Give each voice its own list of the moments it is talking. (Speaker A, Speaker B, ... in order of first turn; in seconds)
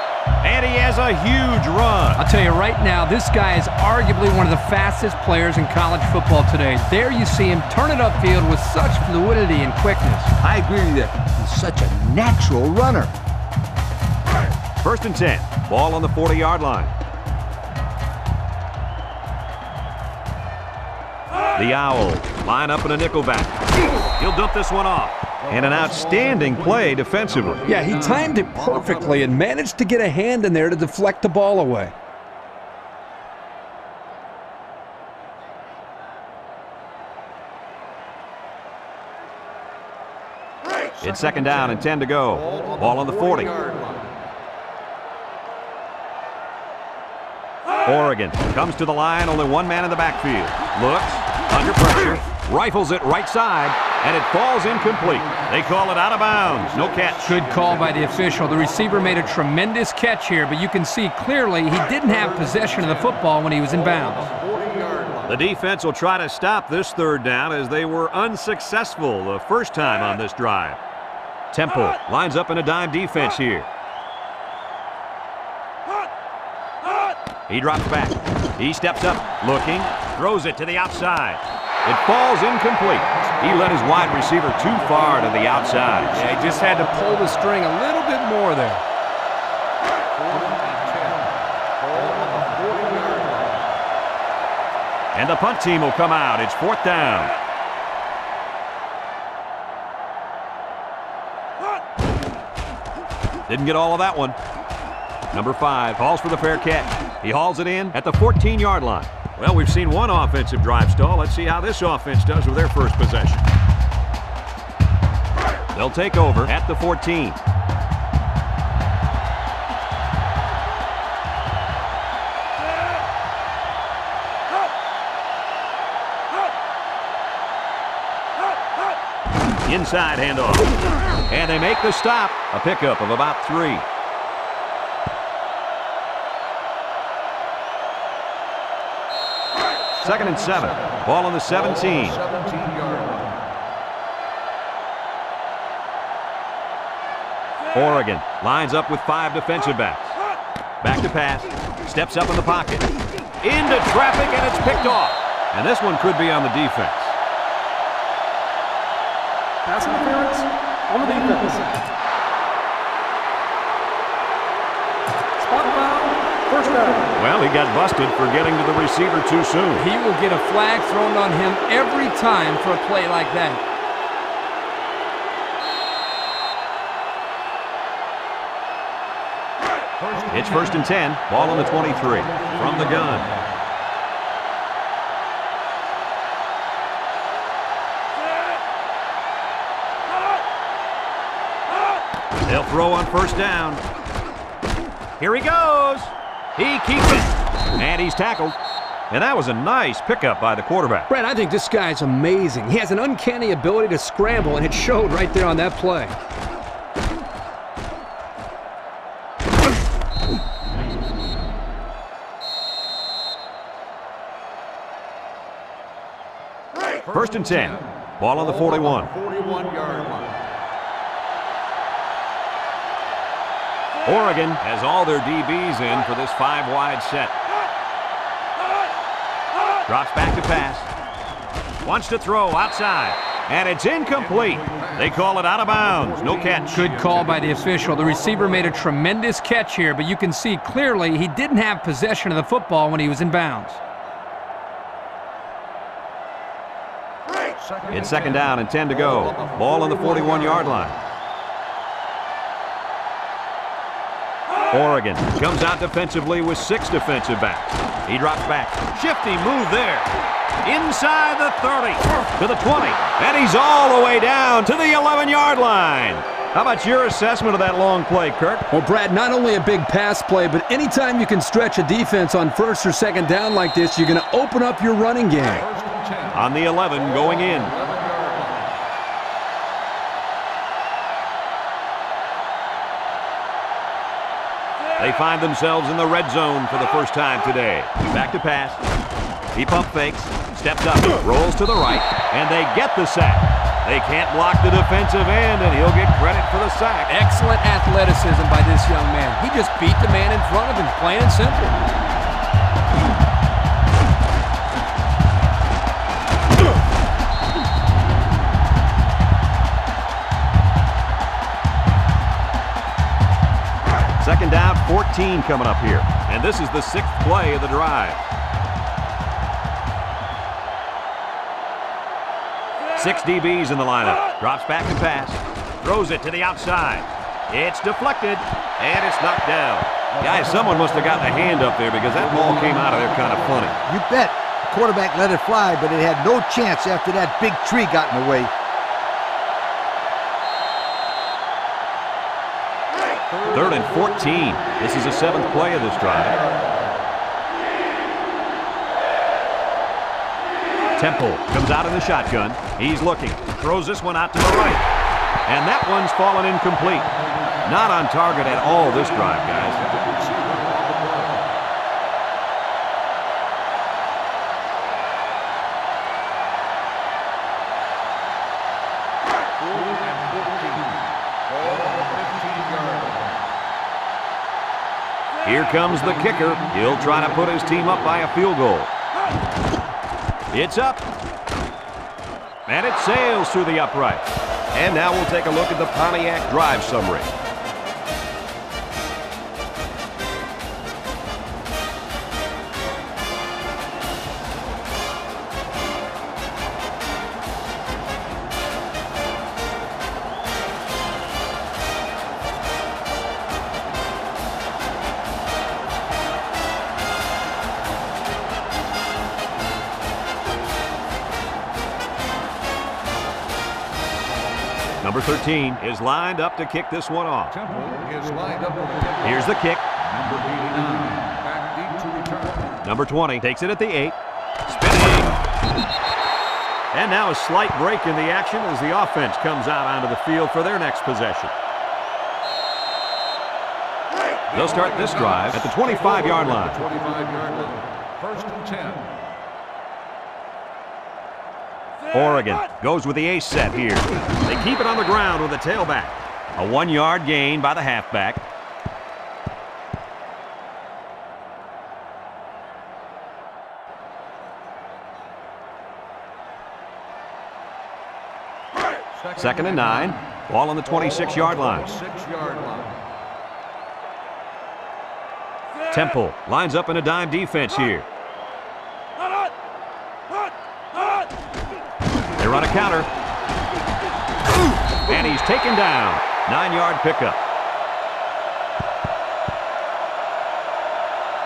Speaker A: 0.4-2.2, 14.8-16.9, 21.6-23.6, 24.2-27.6, 41.0-43.5, 47.9-57.4, 65.2-70.8, 71.5-73.7, 77.5-86.1, 95.1-97.3, 103.5-104.4, 105.3-113.4, 115.7-117.4, 129.7-130.7, 131.3-133.8, 140.0-142.2, 147.7-150.2, 150.8-152.9, 153.4-157.2, 167.2-169.8, 180.3-183.3, 192.4-193.8, 195.2-198.6, 199.1-201.1, 217.1-219.1, 224.1-227.3, 229.9-230.9, 231.8-237.0, 247.9-250.9, 254.7-260.1, 260.6-268.7, 276.3-277.7, 285.0-288.8, 289.5-297.1, 314.2-318.2, 322.9-333.8, 343.4-346.4, 351.0-354.9, 355.4-357.1, 357.6-359.8, 375.4-378.9, 380.5-381.0, 382.7-387.3, 415.0-417.5, 419.2-419.8, 422.8-424.2, 424.7-425.4, 426.9-431.5, 434.5-436.8, 442.1-448.4, 459.4-461.9, 465.9-468.1, 472.4-473.1, 475.1-477.4
Speaker B: 2.2-10.3, 27.7-31.9, 57.2-64.3, 86.1-88.8, 169.8-173.6, 201.1-206.2, 236.7-243.8, 268.7-275.6, 297.1-301.9
Speaker C: 10.4-13.1, 333.9-338.5
Speaker D: 25.4-29.3, 41.2-41.8, 42.3-44.1, 54.8-59.4, 62.0-65.4, 82.9-86.8, 90.1-93.7, 140.0-143.4, 180.0-180.8, 217.1-220.4, 234.2-238.8, 247.6-250.8, 275.6-278.7, 330.2-333.7, 343.3-346.7, 358.4-361.5, 369.6-373.3, 376.1-377.1, 417.5-422.8, 434.5-439.1, 459.1-460.2, 460.9-463.0
Speaker E: 159.7-161.8, 165.4-167.1